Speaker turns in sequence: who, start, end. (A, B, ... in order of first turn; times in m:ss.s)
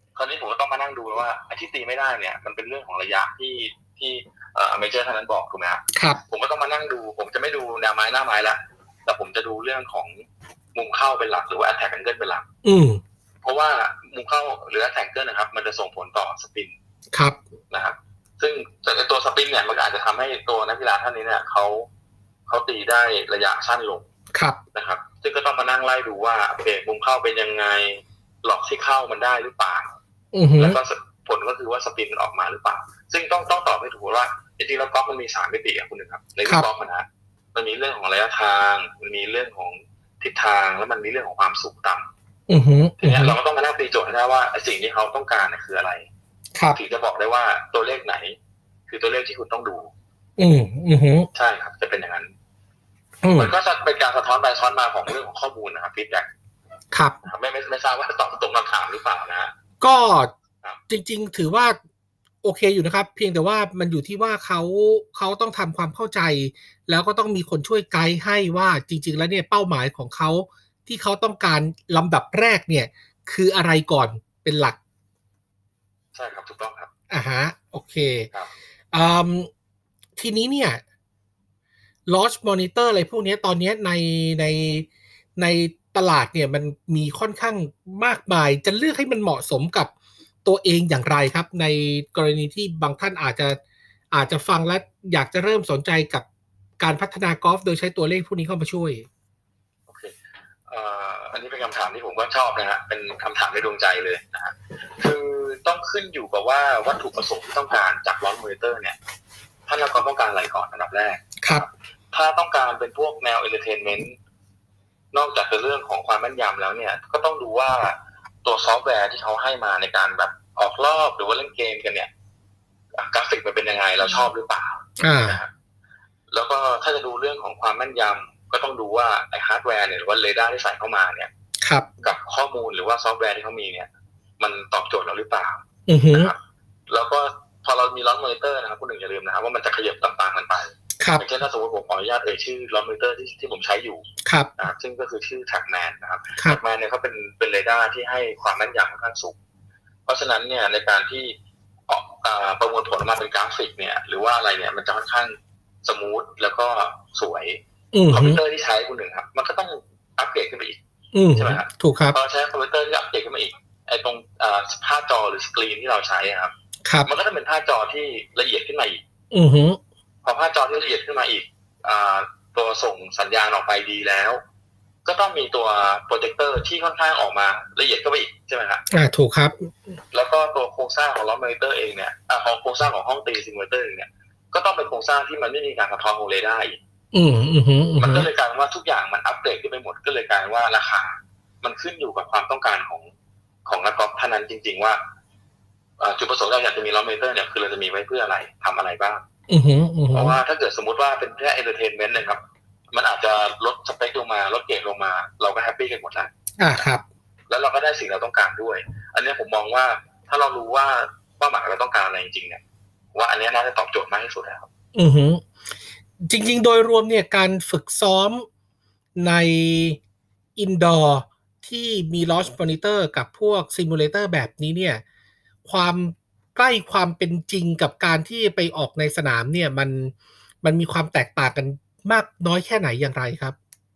0:00.1-0:12.4 A
0:05.9-0:06.2 B
0:12.6-0:13.0 B
0:13.4-0:16.7 A
0:17.1-0:17.4 B
0:17.7-0:21.9 A
0:22.5-0:24.0 A
0:24.3-0:24.6 B
0:24.7-0:29.9 A
0:30.3-0:30.8 B
0:30.6-0:42.0 A
0:42.5-0:43.4 B
0:43.0-0:46.1 A
0:46.7-0:48.4 A
0:48.9-0:49.9 A
0:50.4-0:51.3 B
0:51.3-0:52.3 A
0:53.2-0:53.5 B
0:53.4-0:56.3 A
0:56.9-0:57.2 B
0:57.2-0:59.5 A
0:59.8-1:00.3 B
1:00.9-1:01.8 B
1:02.4-1:14.8 B
1:16.1-1:16.9 A
1:17.1-1:18.3 B
1:18.9-1:19.5 B
1:20.2-1:20.8 B
1:22.1-1:29.9 B
1:30.4-1:33.6 B
1:34.1-1:36.2 B
1:36.8-1:39.0 B
1:39.9-1:40.1 A
1:40.7-1:49.0 A
1:49.7-1:54.1 A
1:51.4-1:51.7 B
1:55.1-2:02.1 A
2:03.0-2:05.5 A
2:05.0-2:05.4 B
2:06.3-2:11.3 A
2:11.6-2:11.9 B
2:12.0-2:13.9 A
2:14.4-2:24.0 A
2:15.9-2:16.3 B
2:21.0-2:21.3 B
2:24.2-2:24.5 B
2:24.6-2:29.4 A
2:30.0-2:31.3 A
2:31.9-2:40.8 A
2:37.9-2:38.4 B
2:41.1-2:42.2 B
2:41.3-2:46.5 A
2:46.8-2:47.1 B
2:47.0-2:49.0 A
2:49.3-2:49.8 B
2:50.2-2:54.4 A
2:55.0-2:58.8 A
2:58.9-2:59.7 B
3:00.1-3:06.8 A
3:07.1-3:08.3 B
3:08.0-3:13.1 A
3:13.6-3:15.0 A
3:16.0-3:19.2 A
3:19.5-3:20.4 B
3:20.1-3:22.4 A
3:22.9-3:26.3 A
3:26.6-3:27.0 B
3:27.5-3:32.6 A
3:33.1-3:34.7 A
3:34.9-3:35.4 B
3:36.2-3:38.4 B
3:39.2-3:40.0 B
3:40.6-3:45.0 B
3:45.6-3:53.6 B